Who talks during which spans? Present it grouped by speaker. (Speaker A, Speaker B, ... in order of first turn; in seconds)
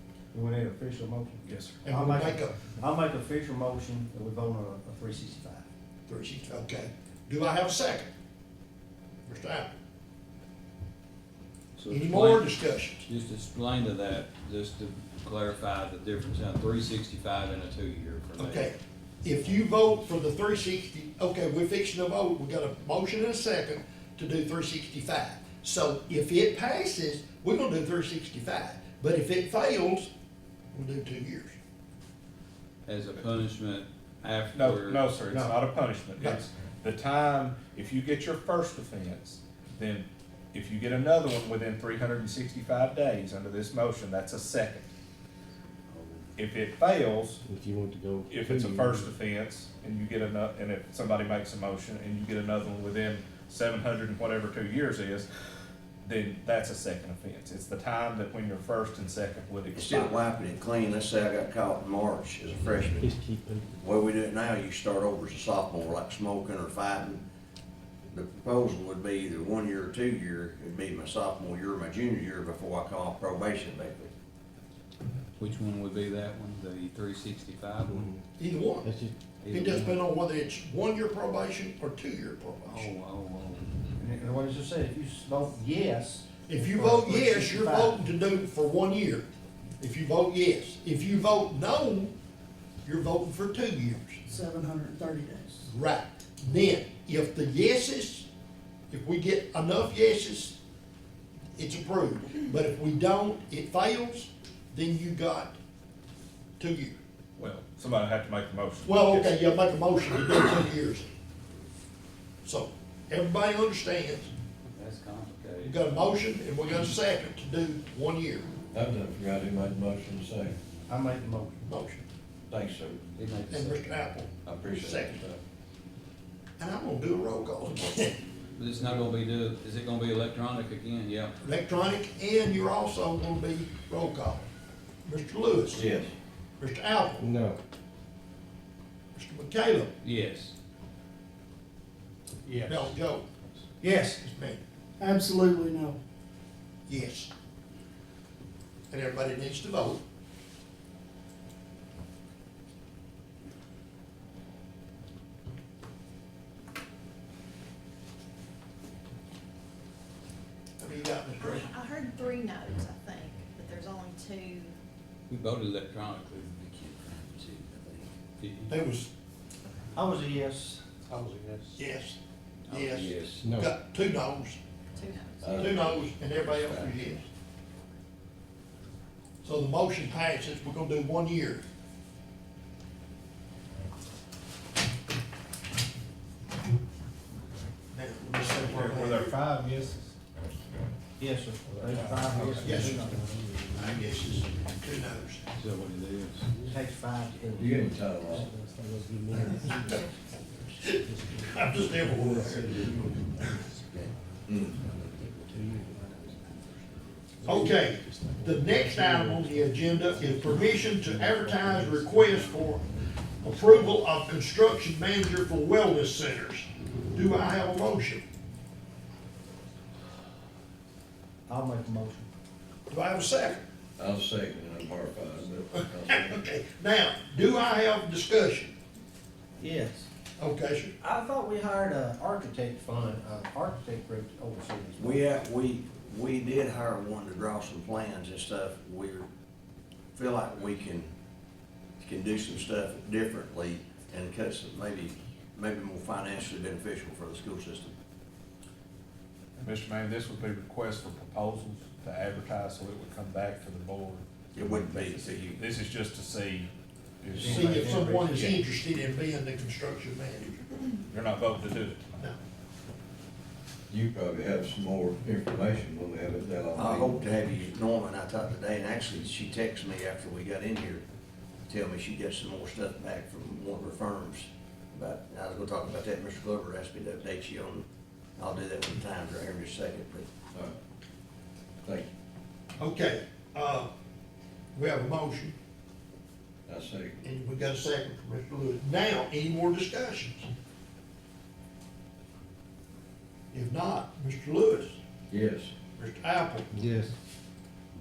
Speaker A: 0.3-5.7, 84.0-88.1, 120.9-121.6, 143.8-144.2, 169.9-170.8, 191.2-193.4, 196.7-197.7, 221.5-222.3, 229.6-230.1, 231.0-235.2, 257.3-258.6
Speaker B: 1.4-1.8, 34.5-44.9, 46.4-47.4, 48.3-55.3, 56.0-60.2, 107.4-109.5, 188.3-190.2, 191.8-192.6, 249.6-256.7, 257.2-258.6, 261.1-262.1
Speaker C: 1.8-2.5, 6.1-8.1, 9.2-9.7, 11.9-13.1, 18.4-30.1, 30.7-31.6, 36.1-36.4, 78.4-78.9, 79.5-82.9, 86.5-89.3, 89.8-92.1, 92.8-94.2, 95.7-98.3, 98.9-100.6, 101.5-105.6, 106.6-107.0, 108.8-111.1, 112.4-114.3, 115.6-118.5, 121.6-122.0, 123.5-125.2, 126.6-128.2, 131.4-134.5, 135.0-135.8, 136.6-137.3, 139.1-139.9, 142.6-143.2, 144.0-144.6, 146.9-147.3, 148.9-150.0, 160.8-161.7, 168.7-169.1, 171.7-172.2, 172.7-174.6, 175.6-177.2, 179.4-181.6, 187.9-189.3, 192.6-193.0, 193.8-195.5, 199.5-200.0, 200.8-202.8, 207.4-212.9, 213.4-218.2, 222.9-223.7, 226.0-228.7, 230.4-230.9, 257.5-260.9, 282.8-283.9, 284.7-285.6, 287.2-290.5, 293.5-295.0, 296.0-296.7
Speaker D: 11.8-18.8, 19.4-19.8, 32.9-35.0, 45.9-46.3, 75.4-78.1, 79.4-79.9, 82.7-83.7, 114.7-116.0, 123.1-123.9, 128.6-131.4, 140.0-140.5, 142.5-142.8, 165.3-168.8, 171.2-171.8, 172.7-173.3, 195.5-196.5, 212.1-212.7
Speaker E: 47.4-49.1, 62.8-63.8, 77.9-78.2, 78.8-80.0, 137.2-137.6, 173.4-173.8, 191.7-194.7, 196.5-196.8, 198.3-200.1, 200.9-204.1, 205.0-212.6, 213.5-213.9, 296.7-297.1
Speaker F: 59.7-63.1, 63.8-67.2, 68.1-74.1, 235.0-239.3, 240.1-241.1, 242.0-247.9, 254.5-255.6, 266.8-271.0, 271.7-277.8, 278.4-280.2
Speaker G: 94.3-95.7, 145.0-146.0
Speaker H: 118.7-120.6, 122.5-123.0, 124.5-125.4, 135.7-136.1, 172.9-173.5, 175.4-176.9, 197.6-198.5, 204.5-204.8, 224.0-226.4, 263.9-267.2, 281.8-282.1, 286.7-287.2, 295.3-295.7
Speaker I: 161.4-164.8, 174.9-176.2